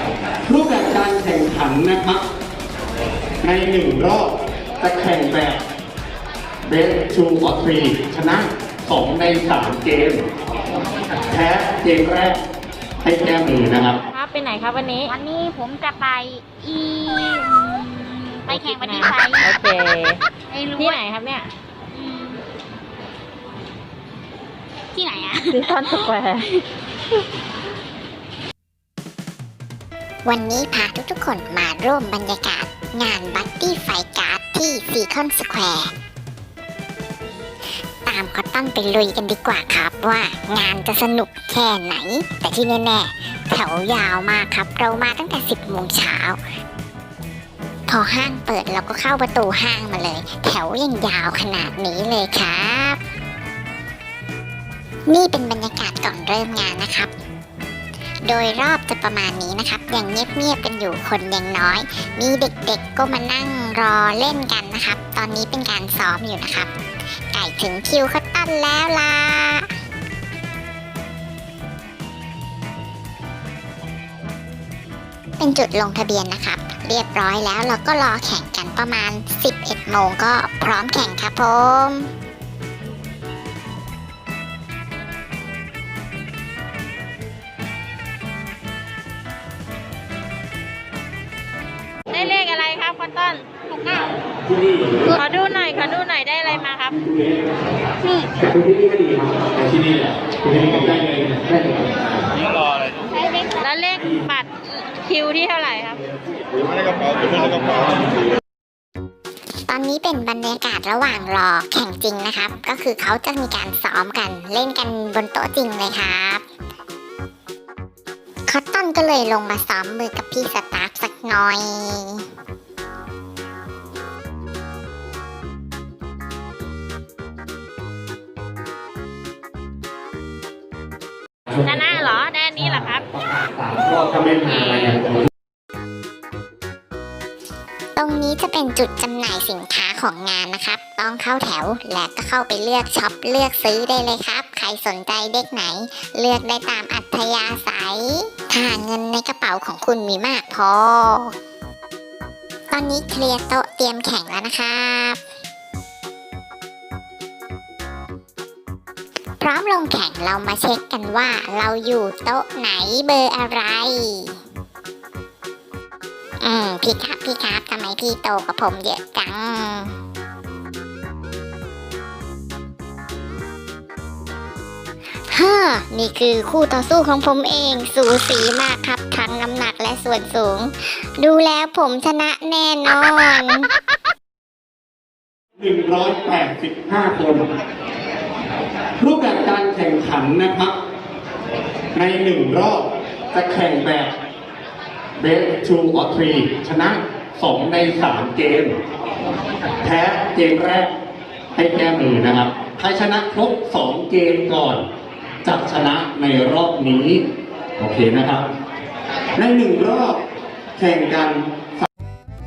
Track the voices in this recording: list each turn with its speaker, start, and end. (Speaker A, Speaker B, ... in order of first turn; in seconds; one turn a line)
Speaker A: 0.5-2.2
Speaker A: 3.4-5.6
Speaker A: 6.7-10.2
Speaker A: 11.3-12.4
Speaker A: 13.0-14.0
Speaker B: 14.1-15.1
Speaker C: 15.1-19.6
Speaker B: 18.5-20.2
Speaker C: 20.5-21.0
Speaker B: 20.8-21.5
Speaker C: 21.9-22.4
Speaker C: 24.9-26.1
Speaker B: 25.5-26.5
Speaker D: 30.2-35.9
Speaker D: 38.0-46.4
Speaker D: 47.9-53.0
Speaker D: 55.1-57.1
Speaker D: 58.2-66.7
Speaker D: 67.3-69.7
Speaker D: 75.4-82.1
Speaker B: 92.1-94.1
Speaker B: 95.1-97.0
Speaker A: 98.5-101.6
Speaker B: 103.5-106.0
Speaker D: 109.7-116.4
Speaker D: 118.5-122.3
Speaker B: 131.6-133.1
Speaker B: 134.3-135.1
Speaker D: 138.0-151.3
Speaker D: 152.7-155.2
Speaker D: 159.4-164.4
Speaker D: 166.4-170.0
Speaker D: 175.3-183.7
Speaker A: 185.6-187.4
Speaker A: 189.0-190.8
Speaker A: 191.9-194.1
Speaker A: 195.2-198.8
Speaker A: 199.8-200.9
Speaker A: 201.6-204.8
Speaker A: 205.4-207.2
Speaker A: 207.8-208.5
Speaker A: 209.4-210.2
Speaker A: 210.8-211.9